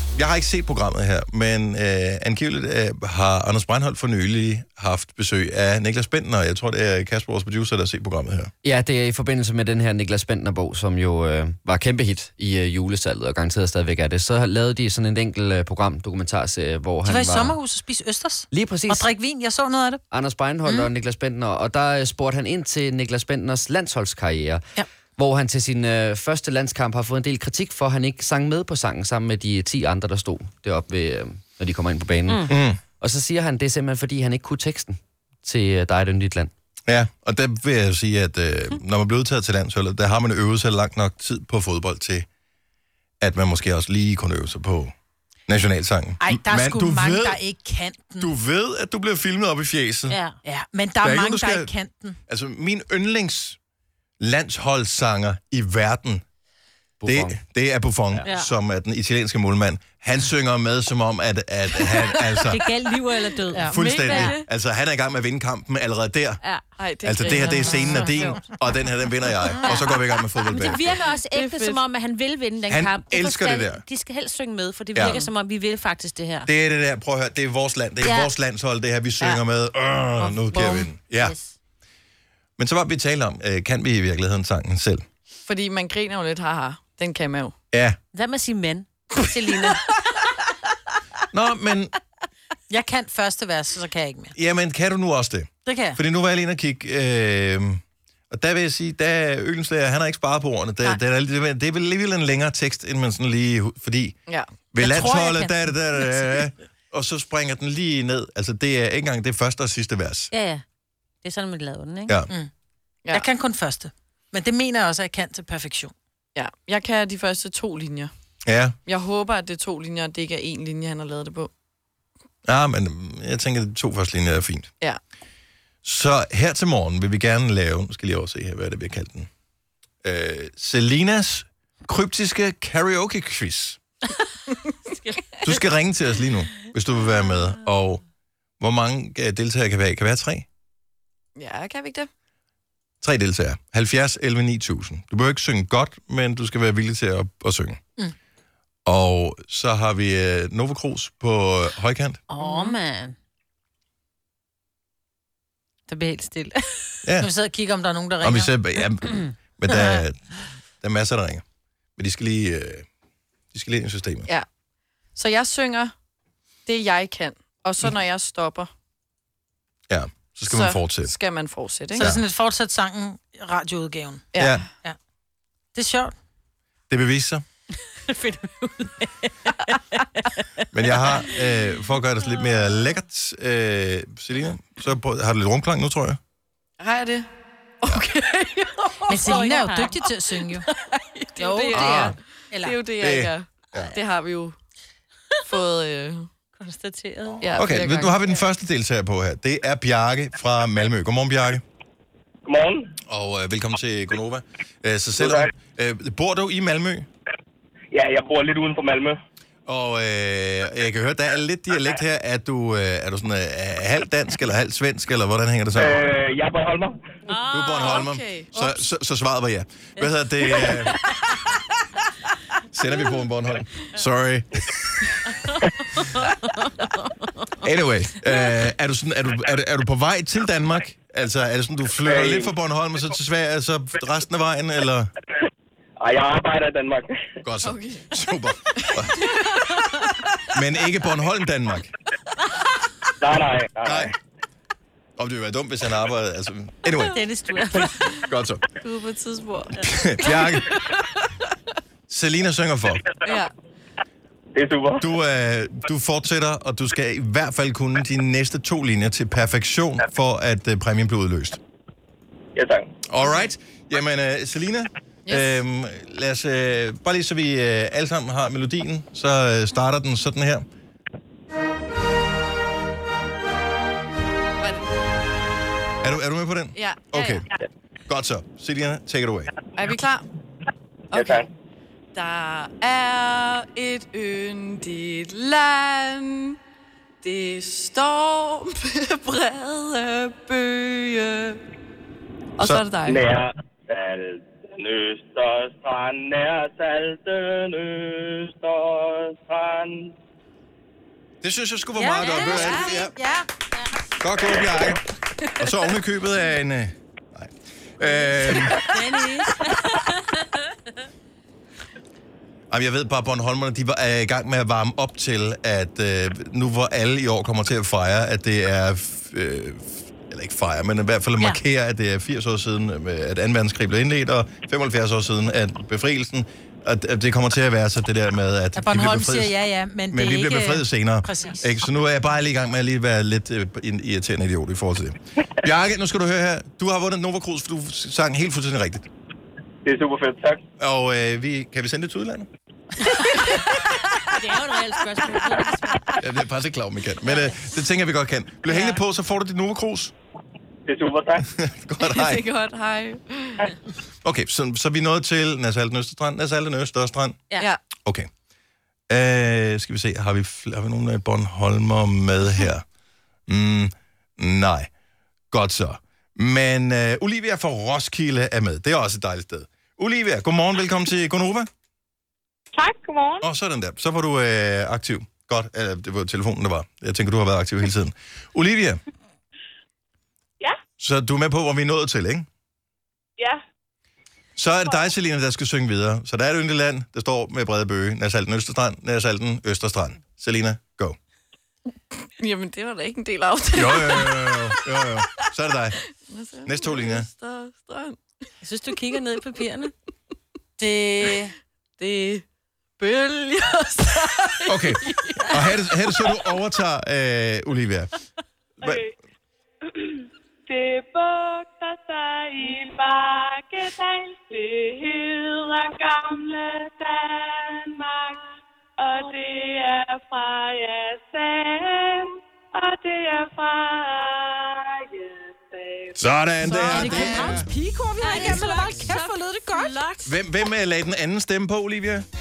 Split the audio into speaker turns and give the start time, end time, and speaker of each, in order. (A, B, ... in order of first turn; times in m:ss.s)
0:00.1-0:08.5 A
0:08.6-0:17.6 B
0:17.0-0:20.0 C
0:18.5-0:19.1 B
0:20.1-0:24.6 B
0:25.2-0:36.5 B
0:32.5-0:32.8 A
0:36.9-0:42.2 A
0:43.2-0:44.9 A
0:45.5-0:47.4 A
0:46.2-0:48.3 C
0:48.2-0:50.2 A
0:50.1-0:50.4 D
0:50.4-0:52.2 C
0:51.0-0:51.7 A
0:52.3-0:53.6 A
0:54.2-0:56.2 A
0:57.0-0:57.4 B
0:57.0-1:02.7 A
1:02.4-1:04.3 D
1:03.5-1:03.9 C
1:03.6-1:06.4 A
1:03.7-1:04.4 E
1:06.8-1:08.2 E
1:07.0-1:10.9 A
1:07.5-1:08.4 D
1:09.6-1:16.5 D
1:11.2-1:11.8 E
1:12.7-1:13.8 A
1:14.9-1:15.2 A
1:15.0-1:15.3 E
1:16.4-1:21.3 A
1:18.0-1:18.3 D
1:20.3-1:20.9 E
1:21.1-1:21.5 D
1:22.6-1:25.0 A
1:25.4-1:27.5 E
1:27.7-1:28.0 A
1:28.1-1:29.6 D
1:29.2-1:29.8 C
1:31.3-1:31.9 A
1:32.7-1:34.3 C
1:34.3-1:44.2 A
1:35.6-1:36.0 C
1:44.7-1:50.3 A
1:44.9-1:46.4 C
1:50.3-1:50.6 D
1:51.2-1:52.2 D
1:53.1-1:55.9 C
1:56.3-1:58.1 E
1:58.4-1:58.7 A
1:58.8-2:01.5 E
2:02.4-2:04.7 A
2:05.8-2:09.3 A
2:10.0-2:13.8 A
2:14.8-2:15.5 D
2:15.4-2:18.0 A
2:18.6-2:20.4 A
2:21.4-2:22.1 E
2:23.0-2:27.8 A
2:28.8-2:32.2 A
2:32.3-2:33.1 D
2:32.4-2:32.7 C
2:35.9-2:37.0 D
2:35.9-2:36.4 C
2:37.0-2:37.3 A
2:37.1-2:38.6 C
2:38.2-2:41.4 A
2:42.0-2:42.8 A
2:43.5-2:44.3 A
2:45.1-2:45.9 E
2:46.6-2:48.7 E
2:49.9-2:51.1 A
2:50.5-2:52.1 E
2:51.9-2:55.0 C
2:52.0-2:52.2 A
2:54.3-2:54.6 E
2:54.4-2:54.6 A
2:55.7-2:56.1 C
2:56.9-2:57.4 A
2:58.1-3:00.7 D
3:00.7-3:06.2 A
3:02.4-3:02.8 D
3:06.8-3:07.3 E
3:07.8-3:09.4 E
3:09.1-3:10.1 D
3:09.1-3:10.6 C
3:10.4-3:14.6 E
3:11.4-3:11.9 D
3:11.4-3:12.8 C
3:11.7-3:12.2 A
3:13.0-3:13.9 A
3:15.4-3:16.3 E
3:16.5-3:17.4 D
3:17.4-3:18.4 E
3:17.6-3:21.6 A
3:22.4-3:22.9 F
3:23.0-3:27.1 A
3:25.2-3:25.5 F
3:27.9-3:29.2 F
3:29.6-3:36.0 A
3:35.7-3:37.0 F
3:37.3-3:38.0 D
3:37.5-3:41.0 A
3:37.8-3:38.6 E
3:40.9-3:41.5 D
3:42.7-3:45.1 A
3:45.4-3:47.5 D
3:47.6-3:55.1 A
3:52.0-3:52.5 F
3:56.0-3:57.3 F
3:57.4-3:59.3 A
3:57.6-3:58.1 E
3:58.9-4:00.0 E
4:00.5-4:01.9 A
4:03.2-4:04.1 F
4:03.8-4:04.1 A
4:05.2-4:07.2 A
4:07.1-4:08.2 D
4:08.3-4:08.6 A
4:08.8-4:11.2 E
4:09.8-4:10.8 A
4:12.1-4:13.0 A
4:13.2-4:13.5 E
4:14.5-4:15.0 F
4:15.0-4:21.6 A
4:22.5-4:22.9 F
4:23.1-4:30.6 A
4:23.2-4:23.5 E
4:25.2-4:25.6 E
4:34.6-4:35.0 E
4:36.0-4:37.5 A
4:36.7-4:37.4 E
4:38.1-4:39.5 A
4:39.7-4:40.3 E
4:41.1-4:41.5 E
4:41.1-4:41.5 F
4:42.1-4:46.6 E
4:47.2-4:51.6 E
4:52.6-4:53.2 E
4:53.0-5:00.1 F
5:01.4-5:03.2 A
5:01.9-5:03.5 C
5:02.4-5:02.9 E
5:04.2-5:05.0 A
5:05.6-5:08.8 A
5:08.2-5:10.7 D
5:12.7-5:29.5 A
5:28.7-5:31.7 C
5:30.1-5:39.1 A
5:39.8-5:40.6 F
5:40.8-5:42.5 A
5:43.6-5:43.9 E
5:44.3-5:46.2 D
5:46.2-5:50.1 A
5:50.9-5:51.4 F
5:51.4-5:52.4 A
5:52.0-5:53.7 E
5:54.2-5:57.4 A
5:59.1-6:02.8 A
6:03.5-6:04.9 A
6:05.5-6:11.7 A
6:12.8-6:13.4 G
6:13.4-6:19.0 A
6:21.0-6:22.5 A
6:24.6-6:31.2 A
6:32.4-6:34.8 E
6:33.7-6:36.0 A
6:36.2-6:38.2 E
6:36.6-6:37.3 A
6:38.6-6:39.9 D
6:40.8-6:41.5 C
6:42.0-6:42.4 E
6:43.0-6:46.3 E
6:44.7-6:48.1 A
6:48.8-6:49.1 A
6:50.8-6:57.2 G
6:59.5-7:01.6 G
7:02.8-7:03.9 G
7:05.0-7:05.9 G
7:06.2-7:07.7 A
7:06.6-7:10.2 C
7:06.7-7:07.6 E
7:07.1-7:07.6 D
7:08.2-7:09.3 E
7:08.2-7:10.1 D
7:10.2-7:12.2 A